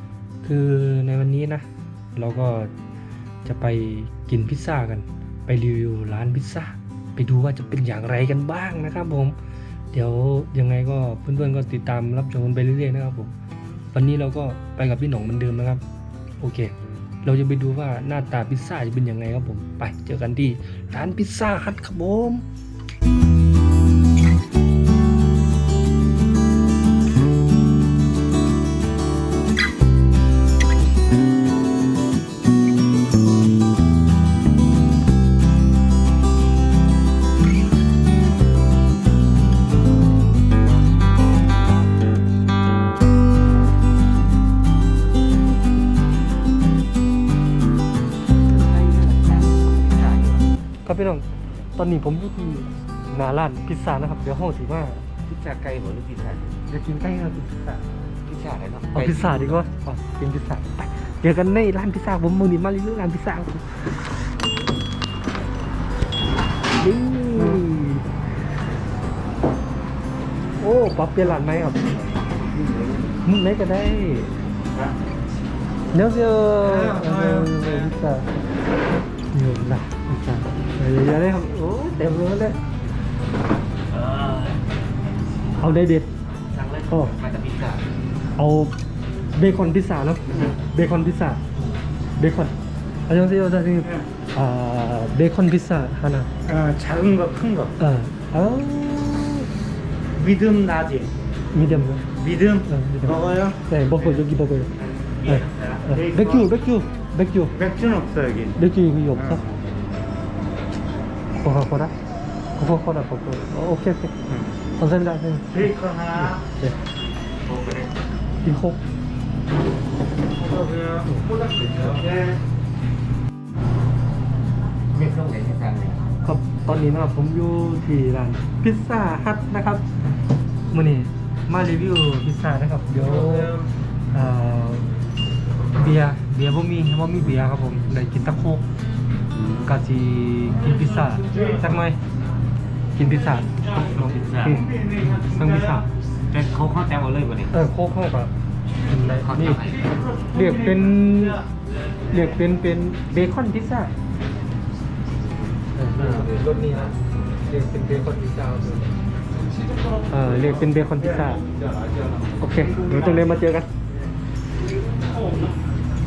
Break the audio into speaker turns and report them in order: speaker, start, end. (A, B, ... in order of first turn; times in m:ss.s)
0:00.4-0:01.6 A
0:02.2-0:02.7 A
0:03.4-0:09.4 A
0:09.9-0:13.3 A
0:13.9-0:15.8 A
0:16.4-0:16.7 A
0:17.2-0:22.4 A
0:48.4-0:50.5 B
0:50.8-0:55.0 A
0:55.2-0:56.6 B
0:56.7-0:57.8 A
0:58.2-0:59.6 B
0:58.9-1:03.9 A
1:06.8-1:08.0 A
1:10.6-1:11.8 A
1:13.2-1:14.3 A
1:15.9-1:18.2 A
1:16.6-1:17.8 C
1:19.3-1:22.6 A
1:25.6-1:26.1 A
1:26.4-1:27.8 B
1:26.9-1:27.1 A
1:28.4-1:28.7 A
1:29.3-1:31.4 A
1:32.2-1:32.5 A
1:33.1-1:36.3 A
1:36.4-1:37.7 C
1:37.8-1:39.5 A
1:40.2-1:41.1 C
1:41.5-1:42.1 A
1:42.2-1:43.6 C
1:42.6-1:44.7 A
1:45.2-1:46.5 C
1:45.2-1:47.5 A
1:47.5-1:48.6 C
1:48.6-1:49.4 A
1:49.2-1:49.4 C
1:51.4-1:51.9 A
1:52.6-1:54.1 A
1:54.8-1:56.8 A
1:55.5-1:56.4 C
1:57.4-1:57.9 B
1:58.4-1:58.8 A
2:00.4-2:02.3 C
2:01.8-2:02.2 B
2:04.9-2:06.0 B
2:06.2-2:09.8 A
2:10.7-2:13.6 A
2:13.1-2:13.6 C
2:14.1-2:14.9 A
2:15.7-2:18.6 A
2:19.3-2:19.7 B
2:19.6-2:22.0 A
2:21.1-2:21.6 C
2:23.0-2:25.8 A
2:24.0-2:24.4 B
2:24.4-2:25.8 C
2:26.3-2:27.6 B
2:27.5-2:28.3 A
2:28.9-2:29.7 A
2:29.0-2:29.9 B
2:29.8-2:31.3 C
2:30.3-2:31.4 A
2:32.1-2:33.9 A
2:35.8-2:36.9 A
2:36.0-2:36.9 B
2:37.4-2:38.9 A
2:39.7-2:40.4 C
2:40.1-2:41.4 A
2:41.2-2:43.2 C
2:42.4-2:43.7 A